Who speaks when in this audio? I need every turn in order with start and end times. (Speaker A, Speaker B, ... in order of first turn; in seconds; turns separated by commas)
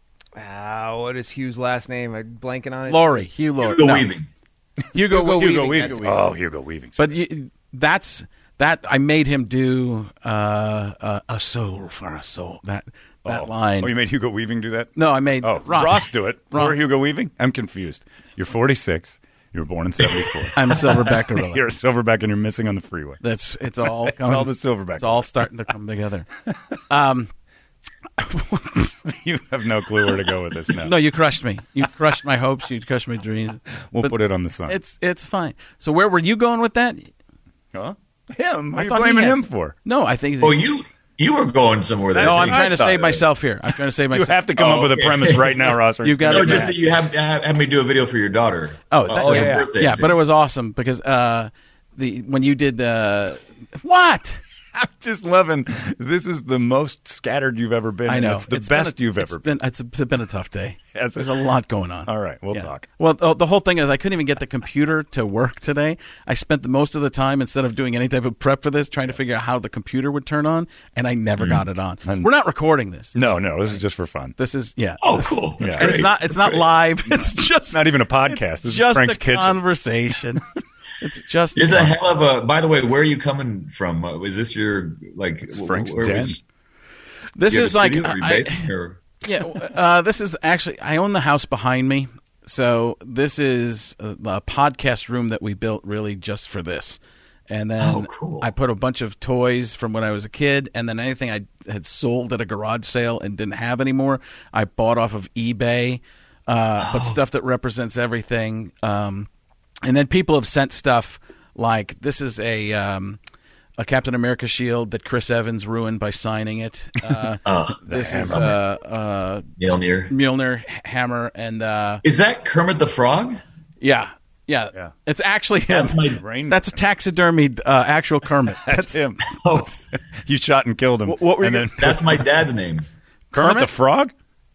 Speaker A: 0.3-3.2, Speaker B: 2.9-4.1, Speaker C: 3.6-4.3, Speaker B: 4.9-6.2, Speaker D: 5.1-7.0, Speaker A: 5.1-6.2, Speaker B: 7.0-13.9, Speaker D: 13.2-23.2, Speaker B: 14.9-16.8, Speaker C: 20.0-20.8, Speaker B: 20.5-21.6, Speaker B: 23.2-26.3, Speaker D: 24.1-25.3, Speaker B: 26.9-27.3, Speaker B: 28.2-28.9, Speaker D: 29.0-30.9, Speaker B: 30.7-34.1, Speaker D: 33.9-34.8, Speaker B: 34.7-37.1, Speaker D: 37.7-39.7, Speaker B: 38.7-40.6, Speaker C: 40.4-43.1, Speaker D: 42.1-43.2, Speaker B: 42.2-44.4, Speaker D: 44.1-47.0, Speaker C: 44.6-45.7, Speaker B: 46.0-46.7, Speaker C: 46.3-50.1, Speaker B: 48.9-54.4, Speaker D: 49.1-49.7, Speaker D: 54.7-59.5, Speaker B: 58.1-73.8, Speaker D: 60.9-61.4, Speaker D: 62.1-62.9, Speaker D: 71.4-72.3, Speaker D: 73.1-74.3, Speaker B: 74.4-80.4, Speaker C: 75.0-76.7, Speaker D: 75.6-75.9, Speaker D: 77.7-79.6, Speaker B: 81.0-81.9, Speaker C: 81.5-86.4, Speaker D: 85.5-86.4, Speaker B: 87.4-88.6, Speaker C: 87.5-89.0, Speaker B: 89.2-109.3, Speaker C: 97.8-98.5, Speaker C: 106.8-107.2, Speaker B: 109.8-113.2, Speaker B: 113.8-119.5, Speaker C: 117.5-118.5, Speaker D: 117.8-118.5, Speaker C: 119.6-120.1, Speaker B: 120.1-122.0, Speaker C: 122.0-123.4, Speaker B: 123.8-129.0, Speaker C: 125.7-126.2, Speaker D: 126.2-126.8, Speaker D: 128.6-129.2, Speaker C: 129.3-129.8, Speaker D: 130.2-132.2, Speaker B: 131.1-132.2, Speaker C: 131.8-132.9, Speaker D: 133.3-134.1, Speaker B: 133.3-133.7